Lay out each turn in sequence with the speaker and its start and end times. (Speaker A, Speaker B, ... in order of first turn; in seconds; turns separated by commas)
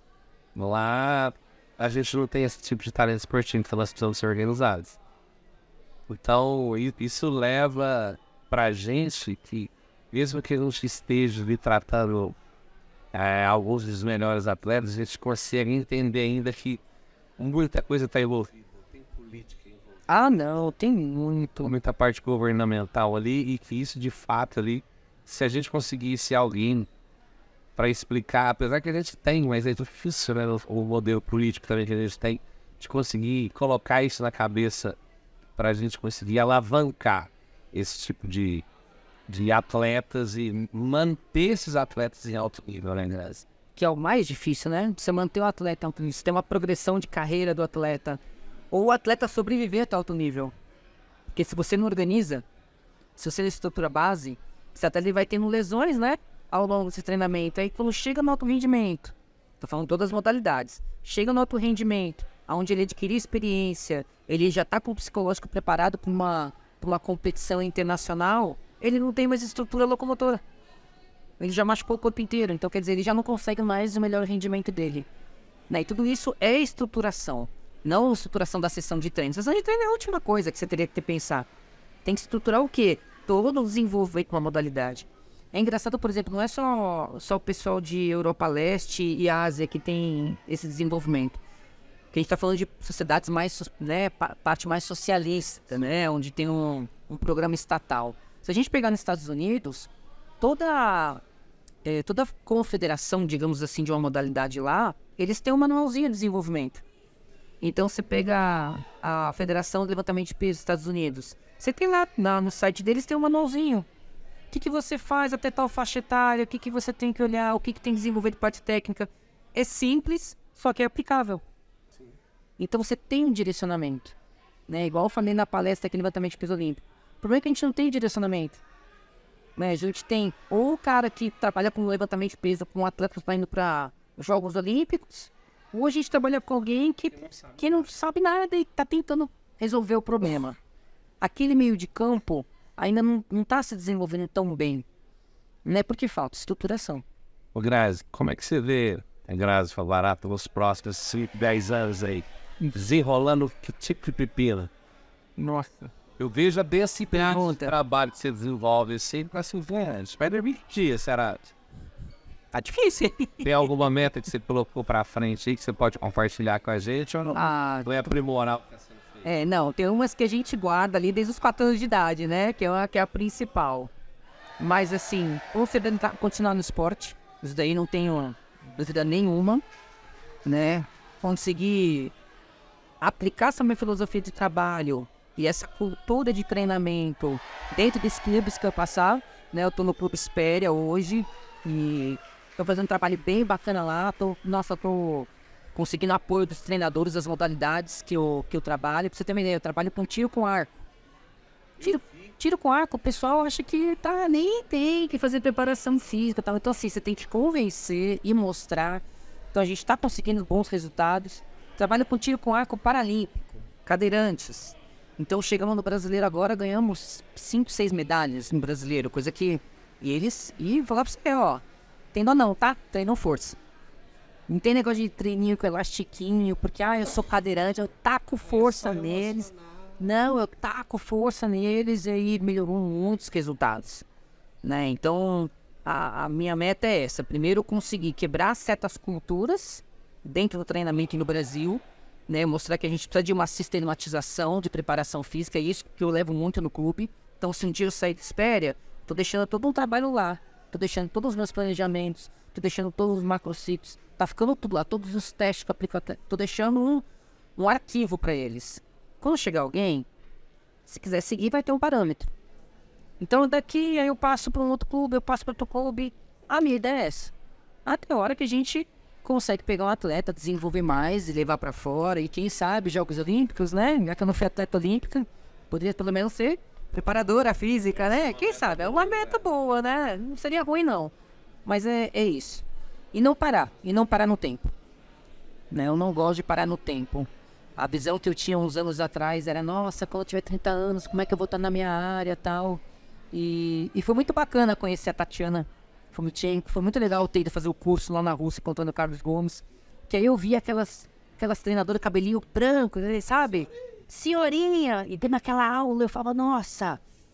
Speaker A: 0.6-5.0, Speaker A: 6.1-12.4, Speaker A: 13.1-16.8, Speaker A: 17.4-20.0, Speaker B: 20.1-21.7, Speaker A: 21.6-26.9, Speaker A: 27.8-35.0, Speaker A: 35.6-38.7, Speaker A: 39.3-43.5, Speaker B: 43.8-50.5, Speaker B: 51.3-52.5, Speaker B: 53.2-70.4, Speaker B: 71.4-75.1, Speaker B: 75.7-81.5, Speaker B: 82.0-91.4, Speaker B: 92.1-99.9, Speaker B: 100.4-101.2, Speaker B: 101.8-106.8, Speaker B: 107.6-113.9, Speaker B: 114.5-121.4, Speaker B: 122.6-124.2, Speaker B: 124.7-128.6, Speaker B: 129.6-140.6, Speaker B: 141.2-144.9, Speaker B: 145.7-147.0, Speaker A: 147.5-154.7, Speaker B: 155.4-155.9, Speaker A: 156.2-161.5, Speaker B: 157.1-157.8, Speaker B: 162.5-163.7, Speaker A: 163.4-169.3, Speaker B: 167.3-168.1, Speaker B: 169.2-173.9, Speaker B: 174.6-179.6, Speaker B: 180.4-182.1, Speaker B: 183.0-200.8, Speaker B: 201.8-221.6, Speaker B: 222.1-223.6, Speaker B: 224.5-234.1, Speaker A: 228.6-229.6, Speaker B: 234.6-257.1, Speaker B: 257.6-260.1, Speaker B: 260.9-262.3, Speaker B: 263.2-267.3, Speaker B: 267.9-281.1, Speaker A: 278.0-279.4, Speaker B: 281.7-284.7, Speaker B: 285.7-307.0